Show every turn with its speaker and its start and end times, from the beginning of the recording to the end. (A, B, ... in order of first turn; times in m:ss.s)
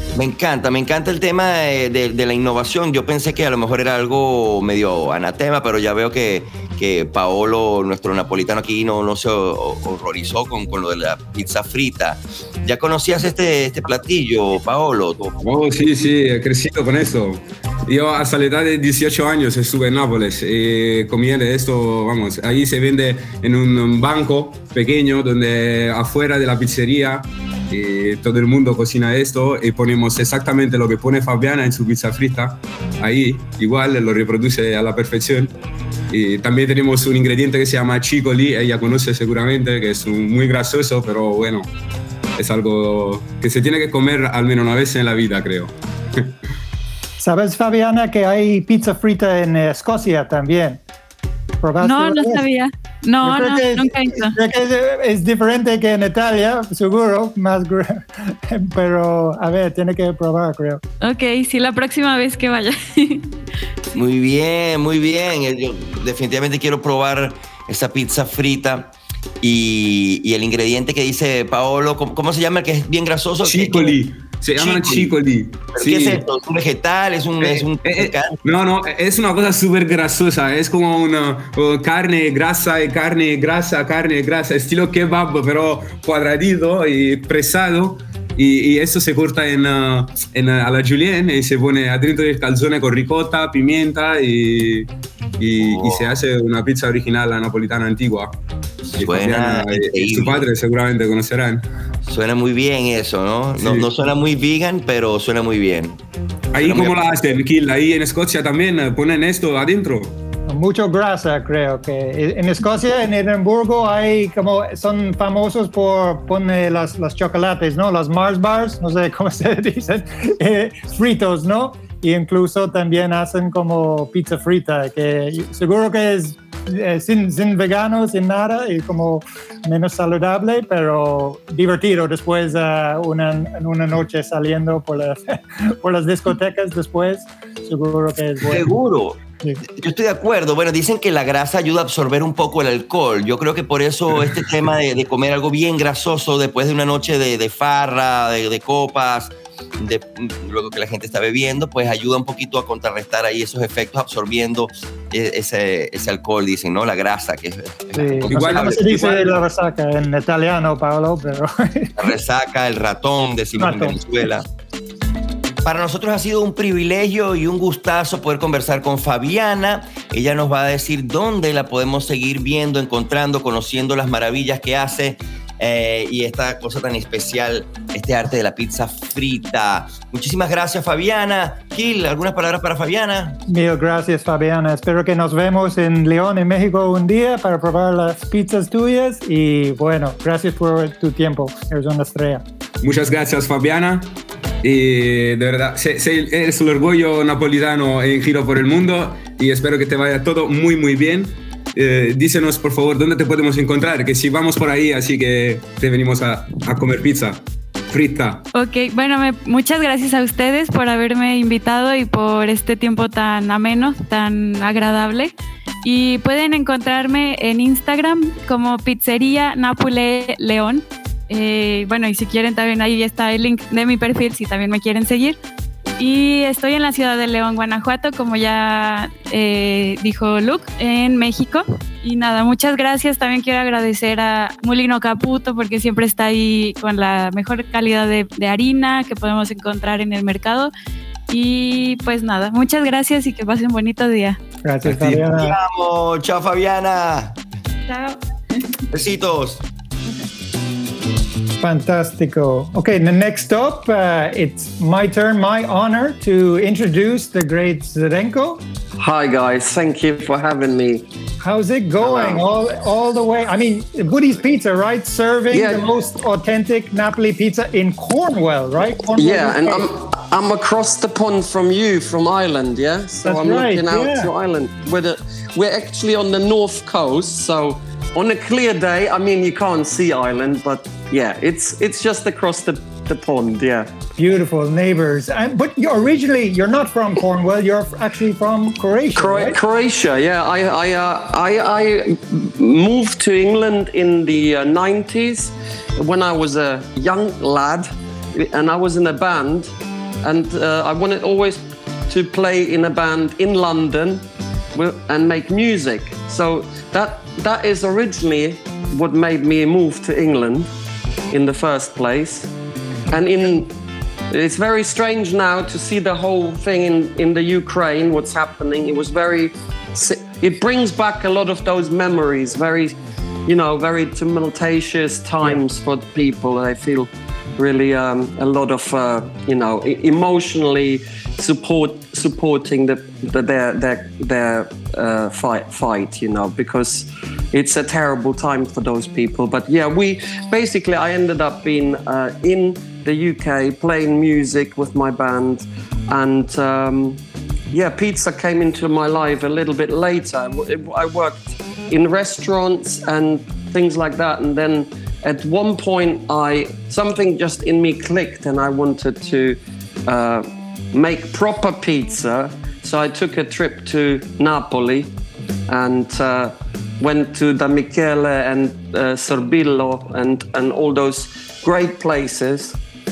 0:00.2-0:15.4 A
0:15.4-0:35.5 B
0:36.1-0:41.7 B
0:42.4-0:46.3 B
0:47.2-0:50.8 C
0:51.6-0:52.4 C
0:51.8-0:54.4 D
0:53.2-1:00.8 C
1:01.0-1:03.3 D
1:03.9-1:14.0 A
1:13.4-1:16.2 B
1:14.6-1:15.2 A
1:15.7-1:18.4 A
1:17.4-1:34.9 B
1:35.4-1:38.4 B
1:35.6-1:36.1 A
1:38.9-1:40.4 A
1:39.0-1:41.6 B
1:42.1-1:46.0 A
1:43.6-1:43.9 B
1:46.5-1:50.2 B
1:46.6-1:47.0 A
1:50.5-2:18.7 C
2:18.4-2:19.2 A
2:19.7-2:39.1 A
2:38.0-2:42.1 C
2:38.3-2:39.3 B
2:42.0-2:44.5 A
2:43.6-2:44.0 C
2:45.6-3:03.4 A
3:03.5-3:12.4 C
3:12.8-3:28.4 B
3:28.5-3:45.4 D
3:46.0-4:00.7 D
4:01.3-4:04.4 D
4:04.6-4:05.6 C
4:04.8-4:07.4 A
4:07.9-4:08.2 D
4:08.9-4:09.6 A
4:11.6-4:18.6 C
4:19.0-4:21.0 E
4:21.4-4:29.9 C
4:22.0-4:22.4 E
4:25.5-4:25.9 E
4:29.2-4:43.9 E
4:33.2-4:34.3 C
4:44.2-4:49.6 C
4:49.2-5:04.2 E
5:04.8-5:10.7 E
5:11.3-5:12.5 E
5:13.1-5:13.7 E
5:14.3-5:23.0 E
5:23.5-6:05.1 E
6:05.7-6:12.8 E